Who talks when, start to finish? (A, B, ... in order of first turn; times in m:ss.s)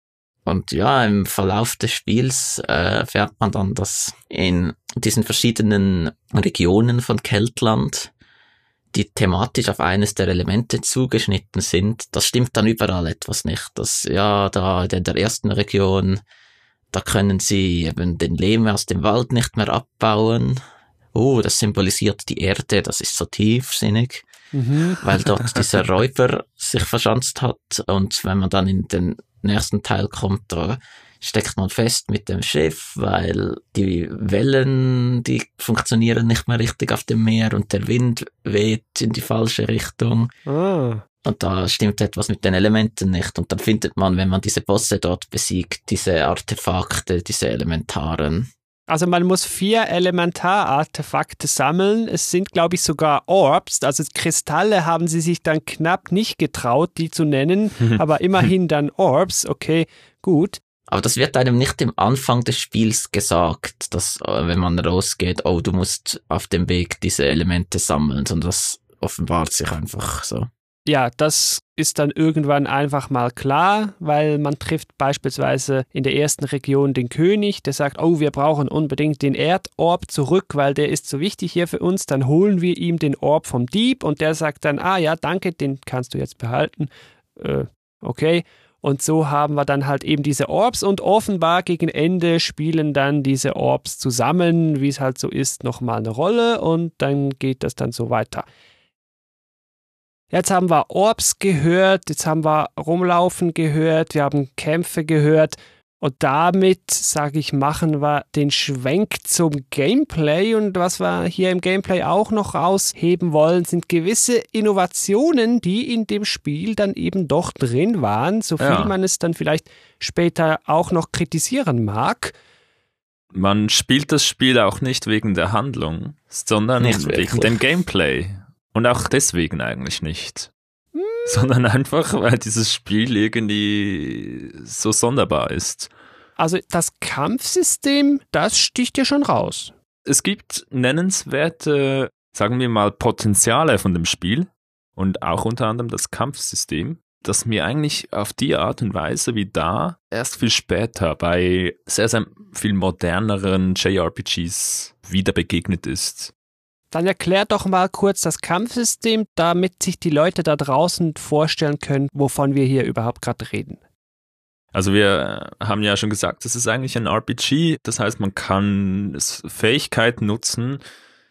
0:00.4-0:08.1 A
0:08.9-0:16.2 A
0:16.9-0:20.6 A
0:21.1-0:24.2 A
0:24.5-0:25.0 B
0:25.0-0:40.3 A
0:40.5-0:41.0 B
0:41.2-0:48.5 A
0:48.9-1:00.6 B
1:00.9-1:10.5 A
1:10.9-1:38.4 B
1:40.3-2:02.3 B
1:58.6-1:58.9 C
2:03.3-2:10.5 C
2:06.8-2:07.6 A
2:10.9-2:11.3 B
2:11.3-2:15.9 C
2:16.4-2:19.7 B
2:20.0-2:36.3 C
2:36.9-2:43.8 B
2:44.7-2:50.8 C